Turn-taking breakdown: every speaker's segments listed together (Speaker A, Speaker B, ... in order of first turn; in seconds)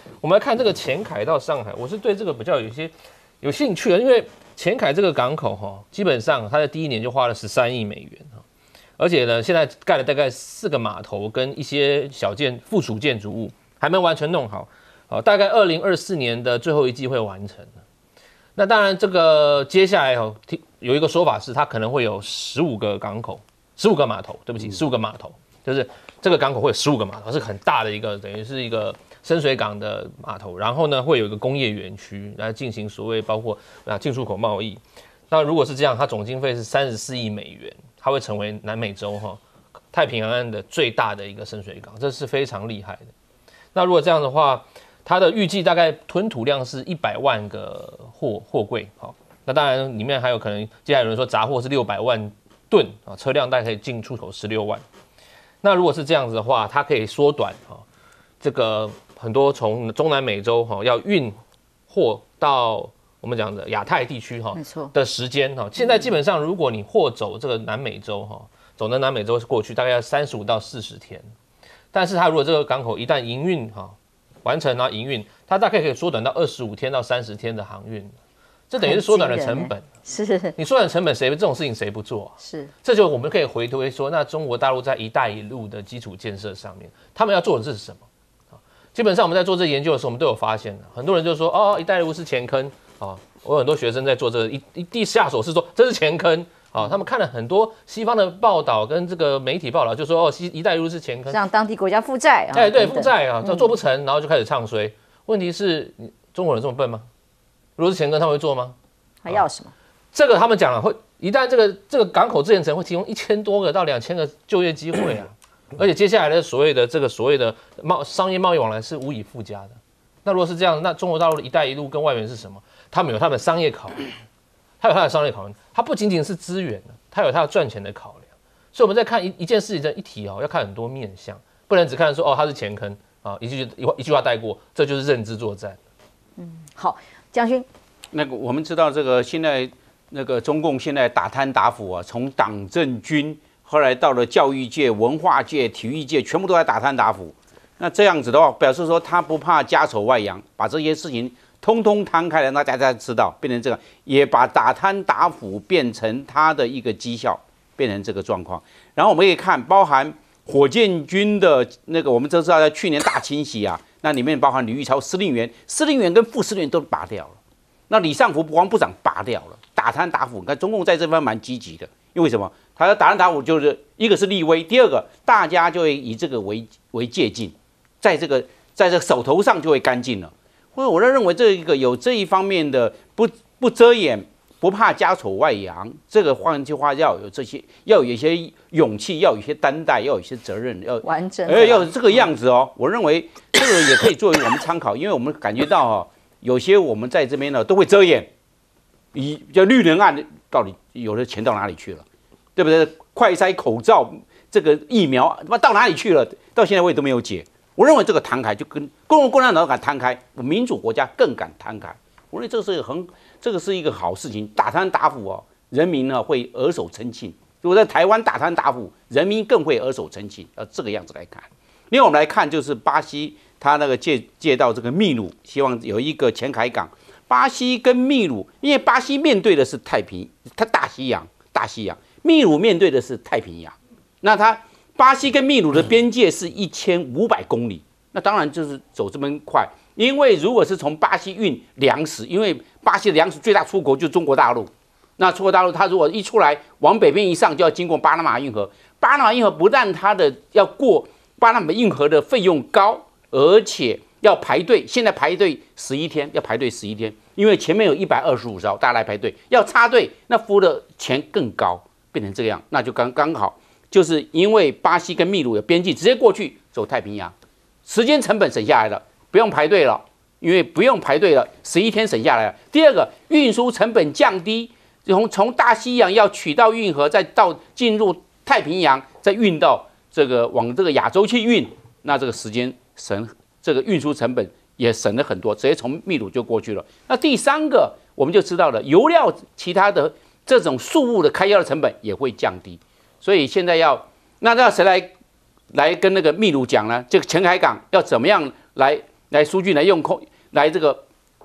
Speaker A: 0.2-8.4, 9.0-17.8, 18.6-39.4, 39.9-43.1, 43.7-54.8, 55.6-57.8, 58.4-71.3, 71.9-78.2, 78.7-79.8, 80.6-88.0, 88.9-101.4, 102.5-107.1, 107.8-108.8, 110.1-124.1, 124.8-135.8
Speaker B: 64.6-64.9, 65.8-66.0, 78.8-80.5, 82.4-82.7, 101.3-103.7, 109.2-109.7, 136.4-137.7, 191.0-191.9
Speaker C: 138.1-167.4, 167.9-198.3, 199.1-202.1, 202.6-267.4, 267.9-295.2, 295.7-301.0